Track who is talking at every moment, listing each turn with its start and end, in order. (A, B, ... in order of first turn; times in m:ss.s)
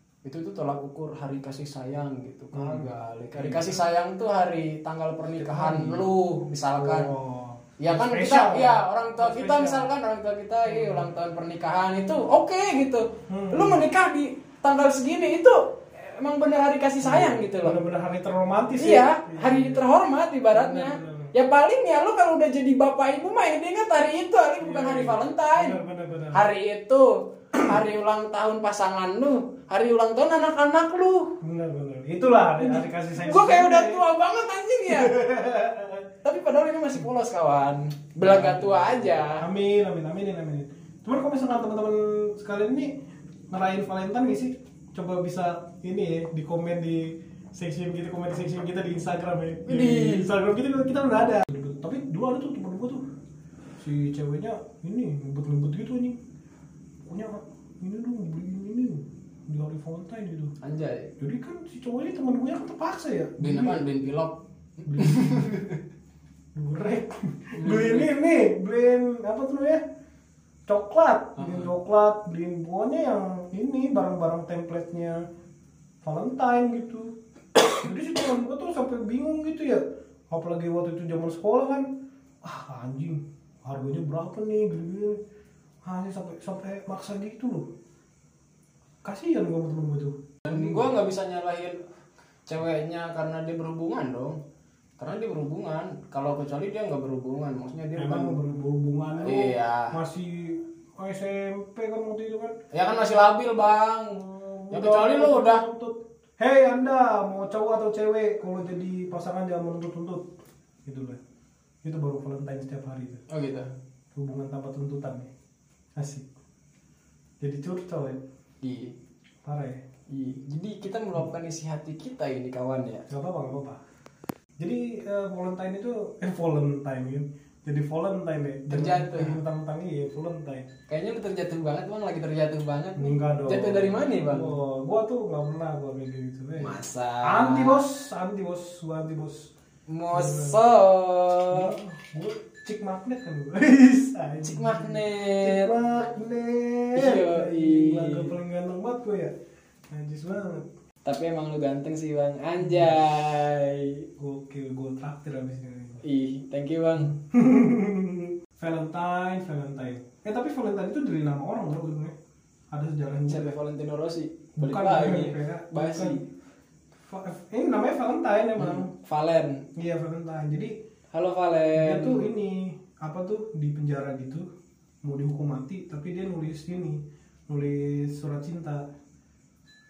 0:00.2-0:07.1 A
0:02.5-0:03.8 B
0:05.3-0:06.1 B
0:06.7-0:09.9 B
0:07.8-0:17.8 A
0:10.7-0:11.1 B
0:13.3-0:13.8 B
0:17.0-0:19.9 B
0:18.8-0:25.8 A
0:20.5-0:21.3 B
0:24.6-0:26.5 B
0:26.3-0:31.3 A
0:31.4-0:34.0 B
0:32.6-0:35.1 A
0:34.9-0:36.1 B
0:36.2-0:39.4 A
0:38.2-0:42.9 B
0:43.5-0:53.0 B
0:49.7-0:50.3 A
0:53.8-0:56.2 B
0:57.0-1:00.5 B
1:00.6-1:01.1 A
1:01.2-1:03.8 B
1:03.4-1:05.8 A
1:04.8-1:05.6 B
1:06.5-1:09.8 B
1:07.6-1:08.1 A
1:10.7-1:15.2 B
1:11.4-1:11.7 A
1:16.0-1:17.1 B
1:17.7-1:21.9 B
1:22.4-1:25.2 B
1:25.8-1:27.7 B
1:29.0-1:30.9 B
1:30.4-1:31.8 A
1:32.5-1:34.4 A
1:35.0-1:38.4 A
1:38.0-1:42.6 B
1:39.2-1:40.0 A
1:42.7-1:45.6 A
1:44.1-1:50.3 B
1:50.8-1:51.2 B
1:51.8-1:53.2 B
1:53.3-1:53.7 A
1:54.1-1:55.3 B
1:56.0-1:56.2 B
1:57.4-1:58.2 B
1:58.6-1:58.9 A
1:59.4-1:59.8 B
2:00.1-2:03.0 A
2:03.1-2:03.8 B
2:04.6-2:10.7 B
2:08.7-2:09.4 A
2:10.9-2:14.5 A
2:13.0-2:19.5 B
2:16.6-2:17.8 A
2:19.9-2:21.7 A
2:20.1-2:20.6 B
2:21.5-2:29.3 B
2:24.4-2:25.7 A
2:26.9-2:28.3 A
2:29.9-2:30.6 B
2:31.0-2:34.0 A
2:32.6-2:33.0 B
2:34.2-2:36.0 B
2:36.0-2:37.1 A
2:37.1-2:42.1 B
2:42.7-2:43.5 B
2:43.3-2:46.2 A
2:44.6-2:46.2 B
2:47.0-2:48.9 B
2:48.6-2:49.6 A
2:49.8-2:50.8 B
2:51.1-2:52.3 A
2:51.7-2:54.4 B
2:55.0-2:58.8 B